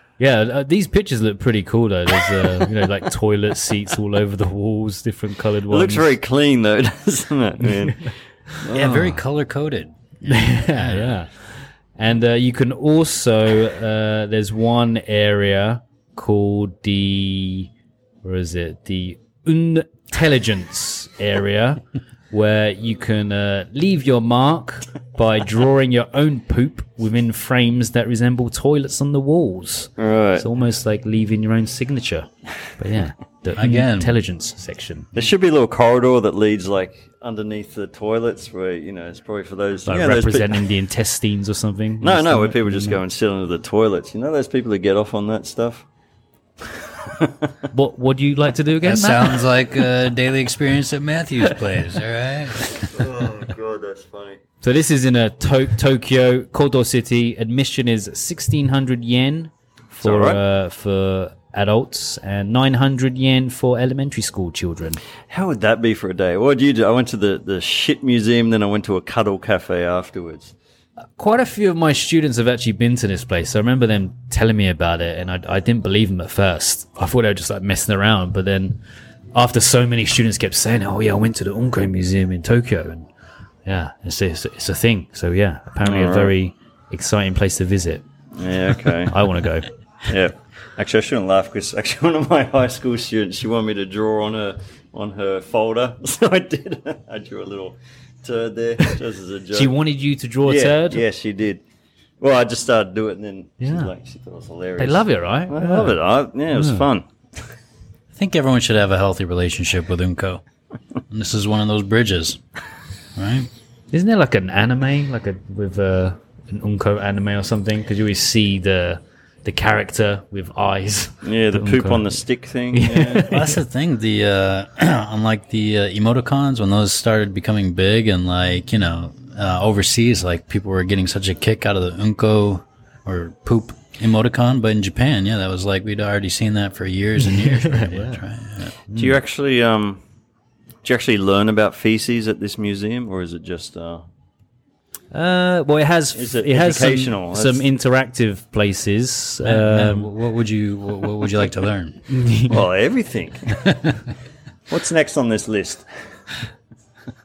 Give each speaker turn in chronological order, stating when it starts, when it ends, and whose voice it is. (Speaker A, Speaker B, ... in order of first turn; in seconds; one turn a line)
Speaker A: 0.2-6.1
Speaker B: 5.7-9.1
Speaker C: 8.7-11.2
Speaker A: 10.3-17.7
Speaker A: 18.2-35.1
Speaker B: 30.0-30.5
Speaker C: 33.5-34.1
Speaker B: 35.1-40.7
Speaker A: 39.9-43.0
Speaker B: 42.0-45.8
Speaker B: 47.2-47.5
Speaker A: 47.7-49.4
Speaker C: 48.8-52.9
Speaker B: 52.7-54.4
Speaker A: 54.6-65.0
Speaker B: 60.0-60.4
Speaker B: 65.3-70.5
Speaker A: 71.2-78.8
Speaker A: 79.3-83.1
Speaker A: 83.7-88.0
Speaker B: 85.8-86.3
Speaker B: 88.4-89.1
Speaker A: 89.1-89.7
Speaker B: 90.1-99.8
Speaker A: 99.5-101.0
Speaker B: 100.4-101.6
Speaker B: 102.2-107.0
Speaker A: 103.6-103.9
Speaker A: 104.8-106.0
Speaker A: 106.5-106.8
Speaker C: 108.1-110.4
Speaker C: 111.1-112.4
Speaker C: 113.2-113.5
Speaker A: 113.9-122.2
Speaker B: 121.2-123.4
Speaker A: 122.7-123.5
Speaker C: 123.3-138.7
Speaker A: 137.3-138.2
Speaker A: 138.9-139.1
Speaker B: 138.9-140.0
Speaker B: 140.8-144.0
Speaker A: 145.1-150.1
Speaker B: 146.1-147.7
Speaker C: 149.4-152.0
Speaker A: 152.1-152.6
Speaker B: 152.5-153.7
Speaker B: 154.7-155.8